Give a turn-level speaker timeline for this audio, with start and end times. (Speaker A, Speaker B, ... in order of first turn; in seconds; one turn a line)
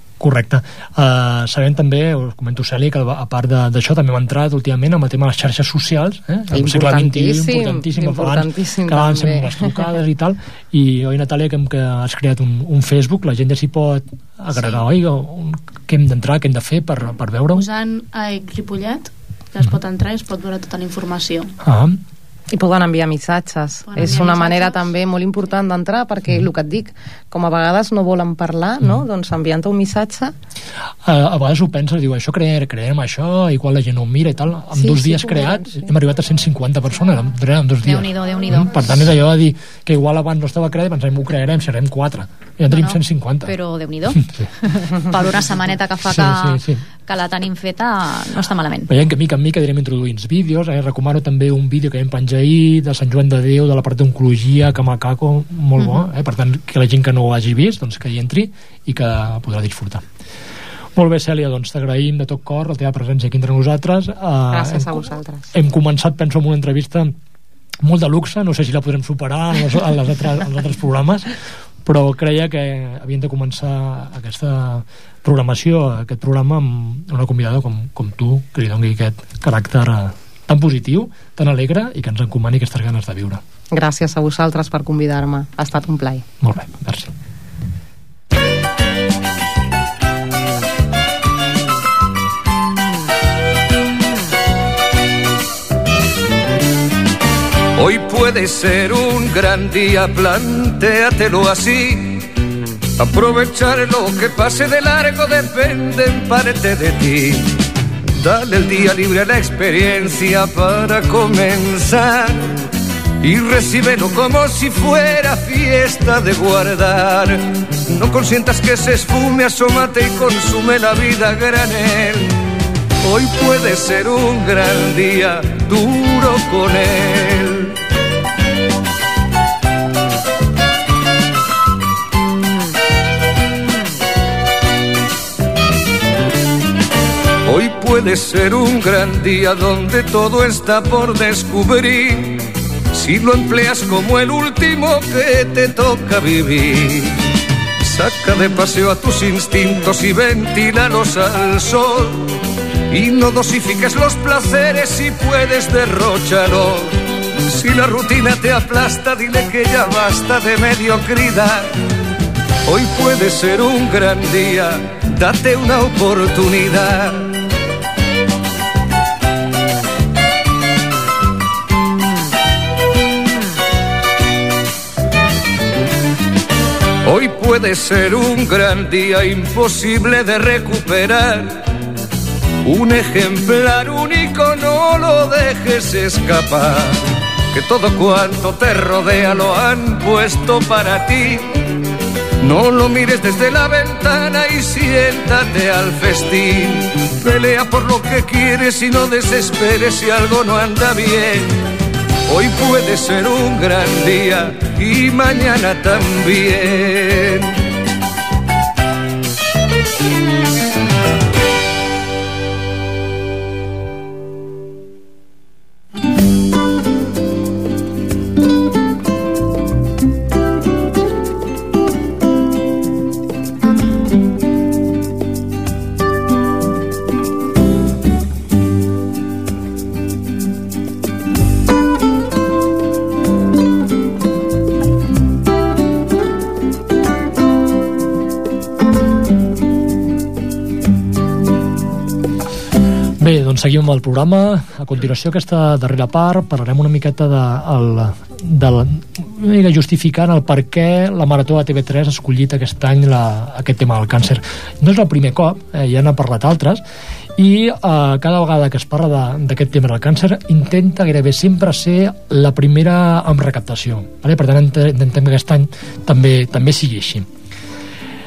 Speaker A: 0.2-17.6
Speaker B: 6.5-9.9
Speaker C: 17.5-21.5
Speaker A: 21.6-22.0
Speaker B: 22.5-30.3
Speaker C: 23.9-24.9
Speaker A: 31.0-43.5
Speaker B: 34.7-35.9
Speaker D: 37.8-38.7
Speaker D: 42.7-48.9
Speaker A: 44.2-44.5
Speaker A: 46.1-46.8
Speaker A: 48.9-60.0
Speaker D: 55.8-56.0
Speaker A: 61.0-67.1
Speaker B: 64.5-65.5
Speaker A: 67.8-71.3
Speaker A: 71.8-83.4
Speaker B: 83.7-86.2
Speaker A: 86.4-87.1
Speaker E: 97.8-102.3
Speaker E: 103.0-107.6
Speaker E: 108.2-112.5
Speaker E: 113.2-122.4
Speaker E: 123.0-127.7
Speaker E: 137.4-147.3
Speaker E: 147.8-152.3
Speaker E: 152.9-161.7
Speaker E: 162.6-167.3
Speaker E: 177.0-181.6
Speaker E: 182.6-187.0
Speaker E: 187.5-191.6
Speaker E: 192.4-201.6
Speaker E: 202.3-207.5
Speaker A: 243.2-256.8
Speaker A: 257.4-267.3